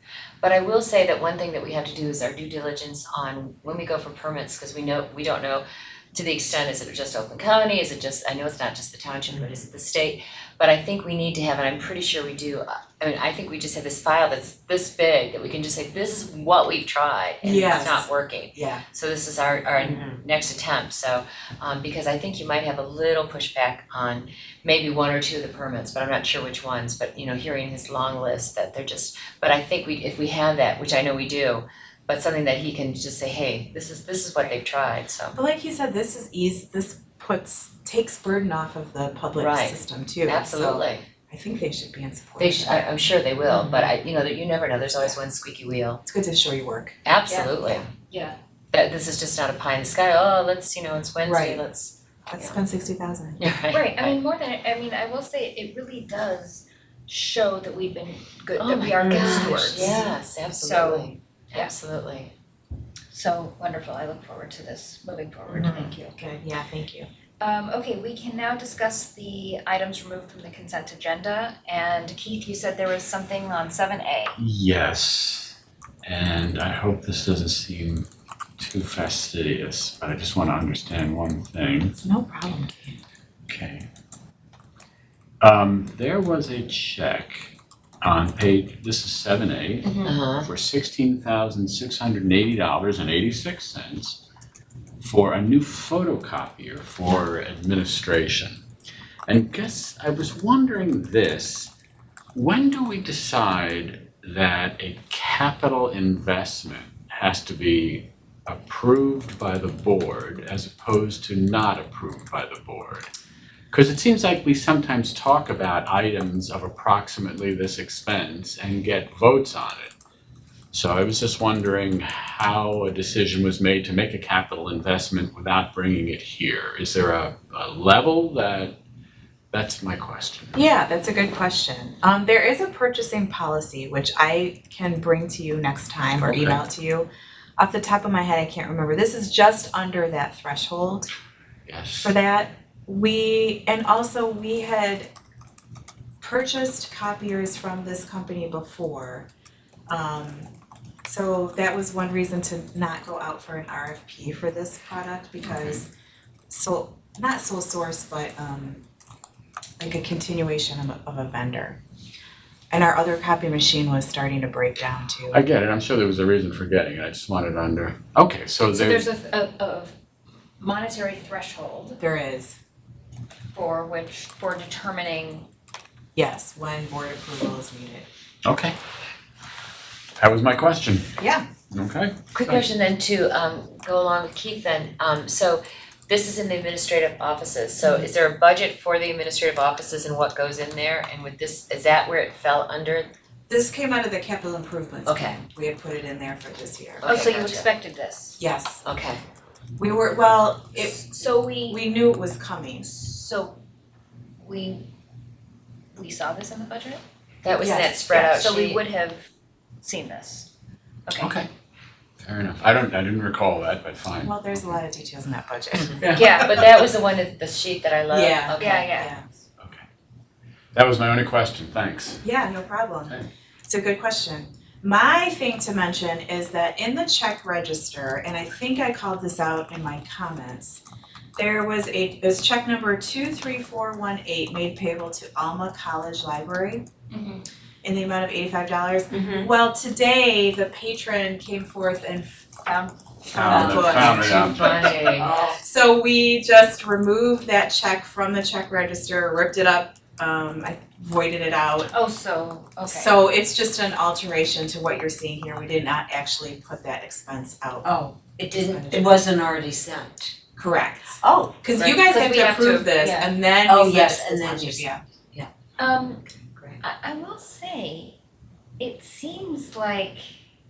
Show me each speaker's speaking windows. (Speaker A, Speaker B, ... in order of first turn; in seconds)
Speaker A: 0.4-35.4, 39.4-41.0, 42.4-46.0, 47.0-47.9, 48.7-52.6, 53.4-54.2, 58.6-62.3, 90.0-90.5, 182.3-193.1, 195.1-195.4, 197.0-197.7, 198.8-199.2, 207.4-208.8, 216.3-218.9, 243.9-245.3
Speaker B: 17.4-18.8, 35.3-43.9, 46.0-47.0, 51.2-51.6, 52.3-53.4, 65.5-67.1, 82.0-83.0, 130.5-141.1, 142.0-145.1, 146.2-149.3, 149.9-150.5, 151.1-155.9, 156.5-158.8, 159.8-161.8, 162.7-165.4, 172.0-172.6, 176.2-178.1, 181.2-181.5, 187.8-188.1, 193.5-197.1, 198.4-198.8, 199.8-201.1, 201.7-202.9, 207.6-208.3, 214.2-216.3, 218.1-219.4, 222.2-230.8, 231.4-236.9, 237.8-242.5, 243.3-244.3, 245.6-251.9, 252.8-257.9, 258.5-259.3, 260.6-265.0
Speaker C: 17.7-18.0, 19.8-20.2, 59.0-60.0, 239.1-239.5, 243.4-244.6, 245.1-245.6, 257.8-260.4, 261.2-261.5, 263.7-265.5
Speaker D: 47.3-48.4, 53.7-61.7, 63.1-66.4, 67.4-74.4, 89.8-90.2, 168.6-169.9, 170.6-172.0, 173.5-175.5, 197.1-198.4, 200.7-201.9, 202.8-203.6, 204.4-204.9, 205.9-207.0, 208.1-209.3, 209.8-210.5, 211.1-211.4, 216.2-216.5, 218.6-219.2, 237.1-237.4, 242.6-243.2, 251.9-253.3, 261.9-263.4, 265.8-266.2, 266.8-268.2, 268.8-270.3
Speaker E: 74.4-78.1, 78.6-82.0, 83.5-83.9, 85.4-94.2, 95.0-98.6, 99.3-101.7, 102.3-113.1, 113.7-119.9, 120.7-128.8, 129.5-130.6, 136.2-136.6, 141.7-142.2, 165.3-169.1, 178.4-178.8, 180.2-181.1, 181.7-182.6, 211.2-211.5, 212.2-214.7, 215.9-216.7, 219.6-219.8, 220.7-222.2, 243.3-245.0